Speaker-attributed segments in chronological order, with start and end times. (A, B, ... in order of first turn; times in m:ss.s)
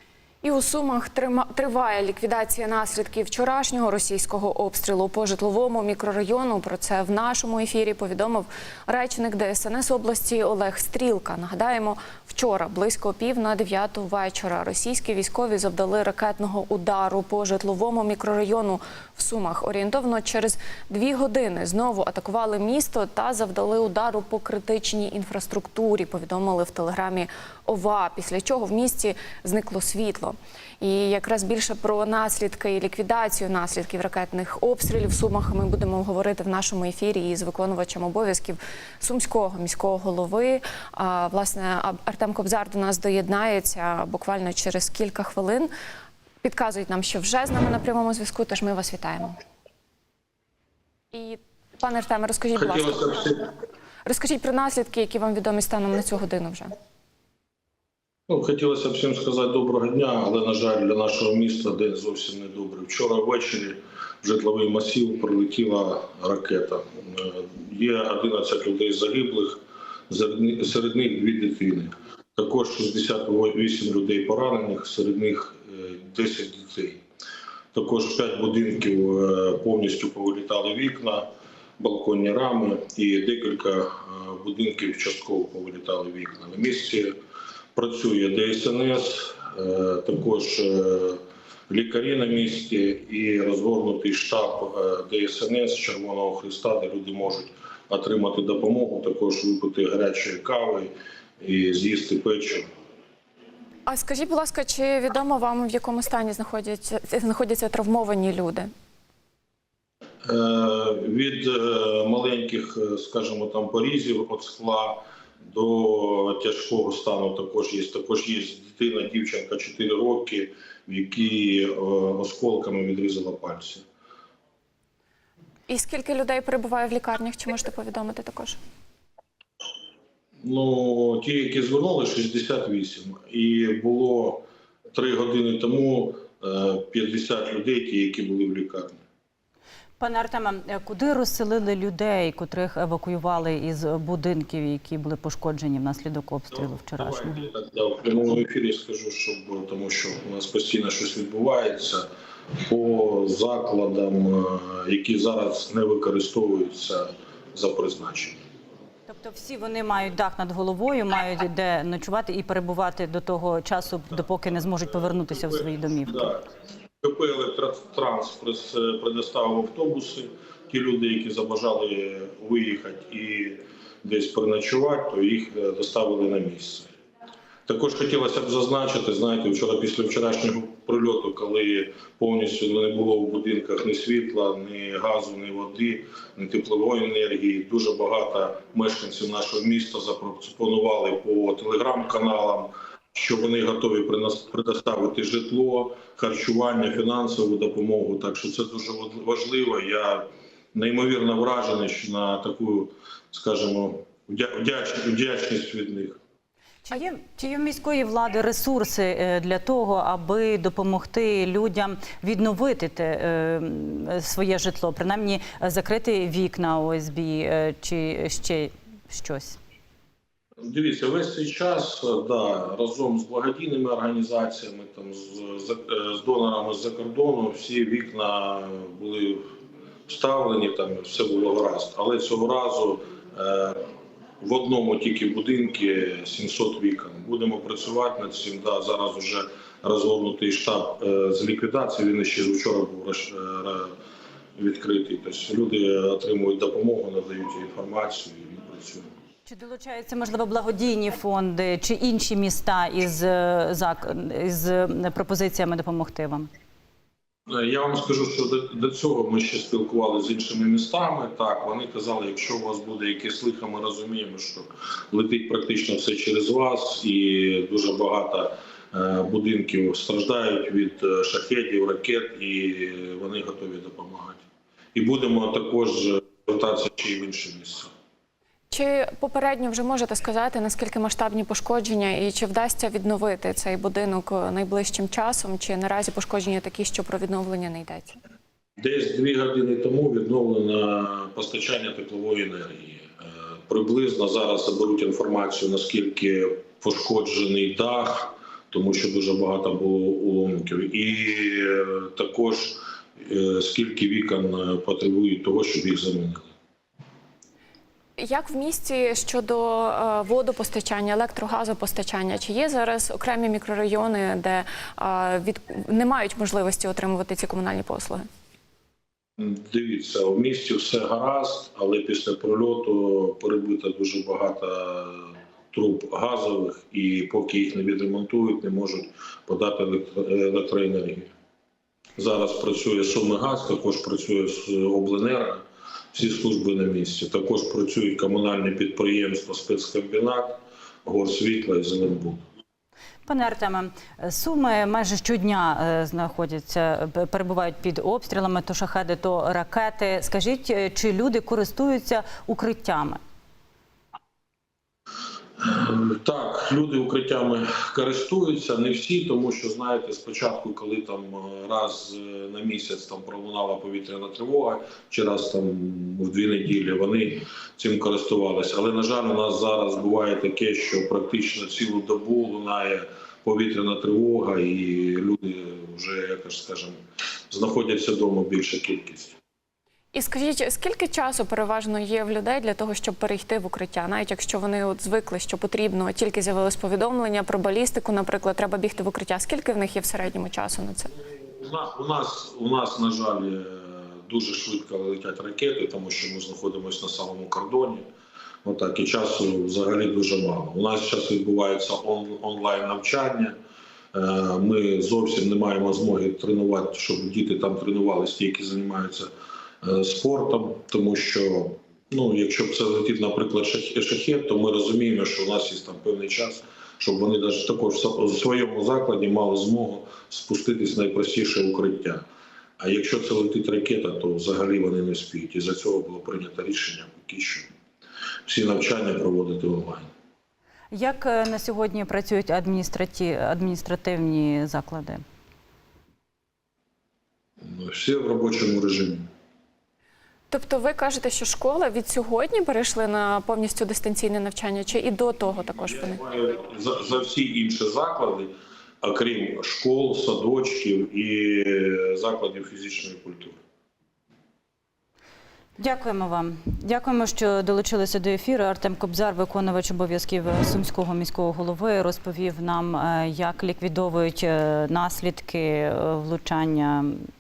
0:00.4-0:45.7 A
0:46.4-0:49.4 A
0:51.1-0:53.5 A
0:52.6-0:53.4 B
0:54.1-0:56.7 A
0:58.3-1:17.0 B
1:17.7-1:21.3 B
1:21.8-1:27.1 B
1:27.8-1:42.7 B
1:43.9-1:48.7 A
1:50.2-2:03.8 B
2:05.7-2:08.6 A
2:10.4-2:19.0 B
2:20.0-2:27.5 C
2:26.5-2:32.1 B
2:32.6-2:38.4 B
2:39.1-2:46.3 C
2:46.1-2:46.4 B
2:47.0-2:56.9 B
2:57.7-3:26.2 B
3:26.8-3:39.6 C
3:40.6-3:49.4 B
3:50.1-3:53.8 B
3:54.4-4:03.9 B
4:04.6-4:09.1 B
4:09.5-4:16.5 C
4:17.5-4:34.4 B
4:35.0-4:37.9 B
4:38.7-4:48.2 A
4:48.8-4:53.1 B
4:53.7-5:06.5 B
5:08.2-5:18.2 A
5:19.4-5:31.3 B
5:32.2-5:42.4 B
5:43.3-5:53.2 C
5:55.6-6:17.0 B
6:17.5-6:19.4 B
6:20.1-6:31.1 A
6:31.3-6:38.0 B
6:38.6-6:43.6 B
6:44.1-6:49.3 B
6:49.8-7:02.2 B
7:02.8-7:07.7 B
7:08.5-7:10.1 B
7:10.9-7:15.2 C
7:17.6-7:19.2 B
7:20.5-7:26.2 A
7:26.0-7:33.6 B
7:35.8-7:47.3 C